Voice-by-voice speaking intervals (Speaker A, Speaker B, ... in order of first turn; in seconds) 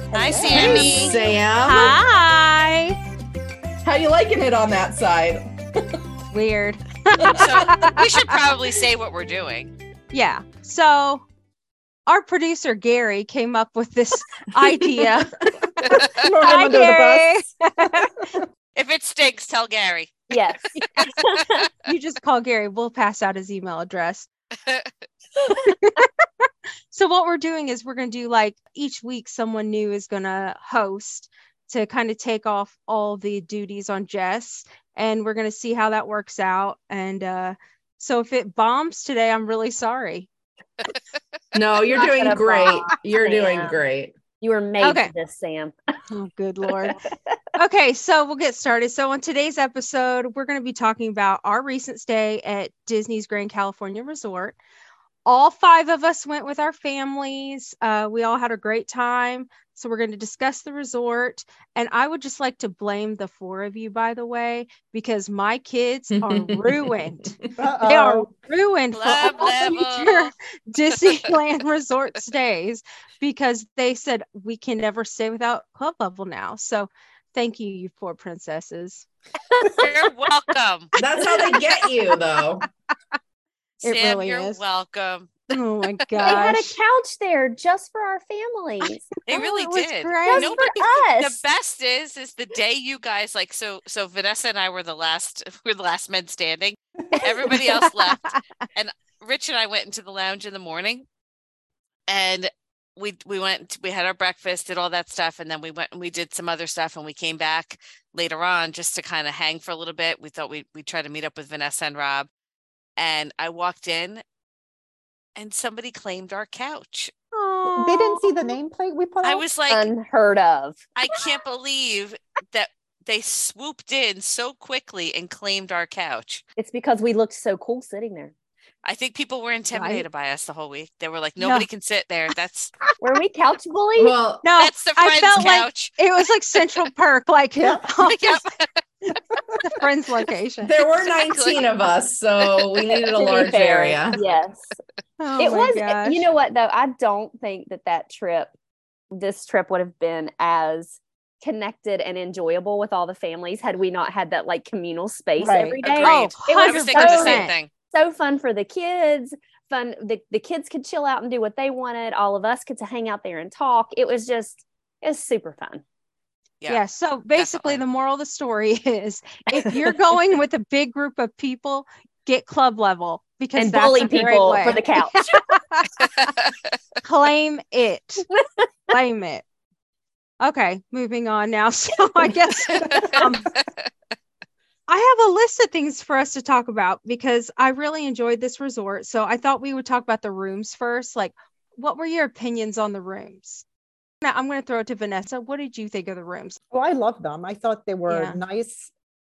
Speaker A: 0.1-1.2, 15.9-18.4, 67.6-68.3, 117.7-119.4, 137.5-137.9, 155.4-155.8, 182.8-183.1, 196.7-198.9
Speaker B: 0.1-1.2, 7.2-9.7, 18.8-21.3, 24.7-24.9, 68.9-70.3, 79.7-80.9, 83.8-85.5, 86.1-86.5, 89.3-101.0, 102.1-112.3, 113.0-114.2, 115.4-117.1, 119.2-119.9, 121.0-126.4, 128.8-132.8, 134.6-136.0, 138.0-139.2, 141.1-141.7, 155.8-157.7, 167.4-167.8, 176.2-176.7, 182.8-183.3
Speaker C: 0.5-3.0, 6.3-8.3, 10.1-11.2, 12.1-18.3, 21.0-21.2, 21.8-24.3, 25.5-40.3, 44.8-45.1, 46.1-47.0, 47.6-54.6, 55.2-79.1, 81.1-81.8, 83.8-84.6, 85.5-86.8, 89.3-90.6, 97.5-98.4, 117.3-118.5, 129.7-130.1, 131.4-131.7, 134.4-138.5, 139.1-140.8, 145.2-146.3, 156.0-157.6, 166.7-176.3, 177.0-178.3, 178.9-179.4, 180.4-183.5, 184.9-193.6, 194.2-196.6, 198.1-198.4
Speaker D: 0.5-2.0, 3.8-6.0, 41.5-44.1, 66.1-67.5, 81.0-82.7, 134.0-134.5, 140.6-144.2
Speaker E: 20.3-21.7, 41.9-43.8, 44.4-45.7, 46.8-47.4, 79.5-79.9, 86.2-89.1, 90.3-91.4, 119.7-120.8, 126.6-128.3, 133.0-134.2, 143.1-144.7, 145.4-148.5, 149.1-165.8, 173.6-175.4